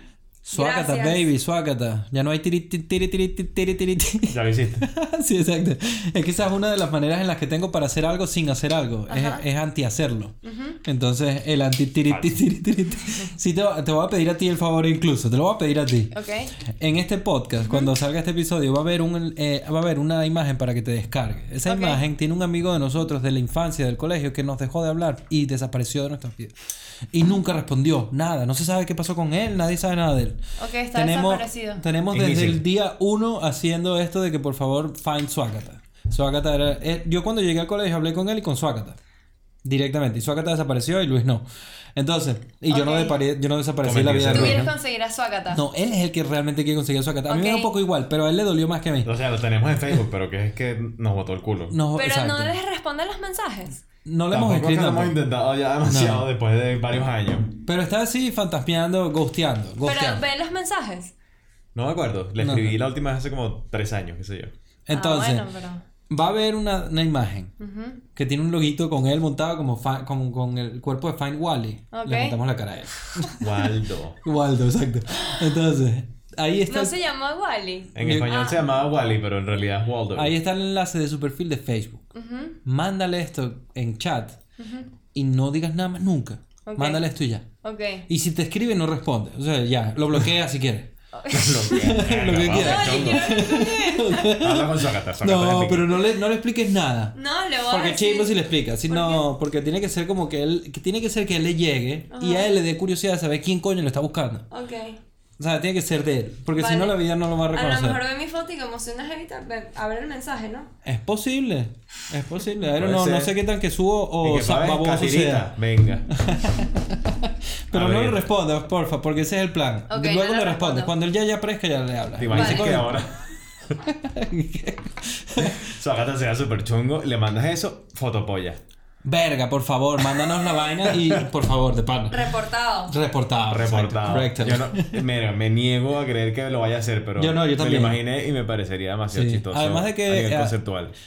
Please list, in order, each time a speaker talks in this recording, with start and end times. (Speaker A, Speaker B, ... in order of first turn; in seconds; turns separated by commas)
Speaker A: 0.4-16.1, Speaker B: 0.5-1.3, Speaker C: 4.3-4.9, Speaker B: 9.1-9.4, Speaker B: 10.4-10.8, Speaker B: 16.1-16.5, Speaker A: 16.7-26.5, Speaker B: 21.6-22.0, Speaker A: 27.1-30.4, Speaker B: 30.6-31.8, Speaker A: 30.9-39.0, Speaker C: 32.1-32.6, Speaker A: 39.6-41.4, Speaker A: 41.9-44.7, Speaker B: 42.7-43.2, Speaker C: 43.8-44.6, Speaker B: 44.3-45.6, Speaker A: 45.5-49.1, Speaker B: 47.3-47.7, Speaker C: 49.0-51.8, Speaker A: 51.7-52.6, Speaker B: 51.9-53.8, Speaker A: 54.0-55.2, Speaker C: 54.3-57.5, Speaker A: 55.9-56.3, Speaker A: 57.6-60.2, Speaker B: 59.8-61.1, Speaker C: 61.7-64.5, Speaker A: 62.4-62.8, Speaker A: 64.9-65.5, Speaker B: 64.9-65.8, Speaker A: 66.1-67.5, Speaker B: 67.6-68.0, Speaker A: 68.1-73.4, Speaker B: 71.9-72.4, Speaker B: 73.0-73.5, Speaker C: 73.4-74.2, Speaker A: 74.2-77.0, Speaker B: 76.7-78.7, Speaker C: 77.9-80.3, Speaker A: 78.0-78.3, Speaker A: 80.1-82.0, Speaker B: 82.1-82.6, Speaker A: 82.6-84.4, Speaker B: 84.6-84.9, Speaker A: 85.1-87.5, Speaker B: 86.7-87.0, Speaker B: 87.6-88.1, Speaker A: 88.1-90.9, Speaker B: 91.1-91.7, Speaker C: 91.3-93.4, Speaker A: 91.7-97.1, Speaker B: 92.5-94.5, Speaker C: 94.3-96.0, Speaker B: 97.1-99.2, Speaker A: 97.7-104.5, Speaker B: 102.1-102.5, Speaker B: 104.5-105.0, Speaker A: 105.4-108.0, Speaker B: 106.5-110.7, Speaker A: 110.8-115.5, Speaker C: 112.8-113.3, Speaker C: 114.2-116.1, Speaker A: 116.1-122.9, Speaker C: 117.7-118.2, Speaker B: 119.9-120.9, Speaker C: 122.2-123.2, Speaker B: 122.3-122.9, Speaker A: 123.8-125.7, Speaker C: 125.4-128.6, Speaker A: 129.0-132.3, Speaker C: 130.9-131.2, Speaker B: 132.1-132.9, Speaker A: 132.9-135.0, Speaker C: 133.5-140.9, Speaker A: 137.2-138.0, Speaker A: 139.1-140.6